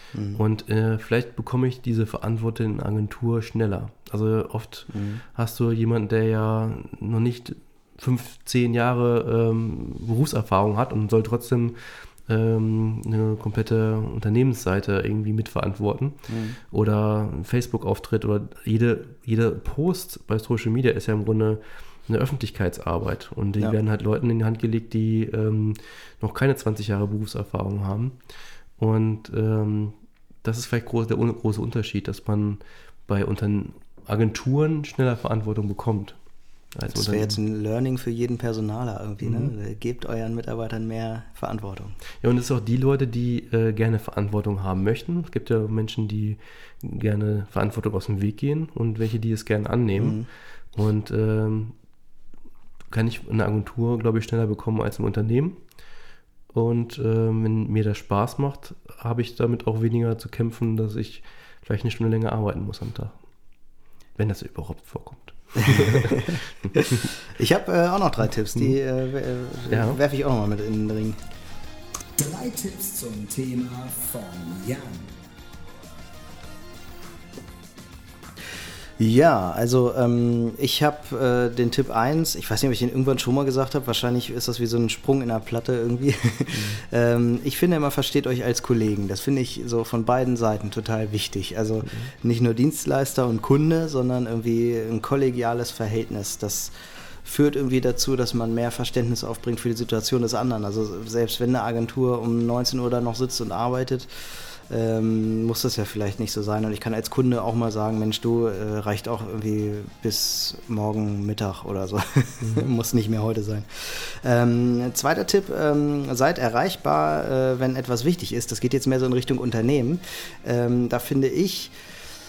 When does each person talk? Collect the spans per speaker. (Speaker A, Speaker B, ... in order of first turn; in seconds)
Speaker A: 0.1-0.4, 4.9-5.2, 16.3-16.6, 36.9-42.0, 50.0-50.3, 65.5-71.2, 79.0-96.7, 97.2-121.7
Speaker B: 0.3-28.2, 28.8-36.2, 36.7-37.4, 39.2-39.5, 42.2-50.2, 50.7-51.8, 52.9-55.6, 56.5-63.2, 64.2-67.1, 69.7-70.0, 91.8-92.1, 112.4-112.7
Speaker C: 72.2-75.1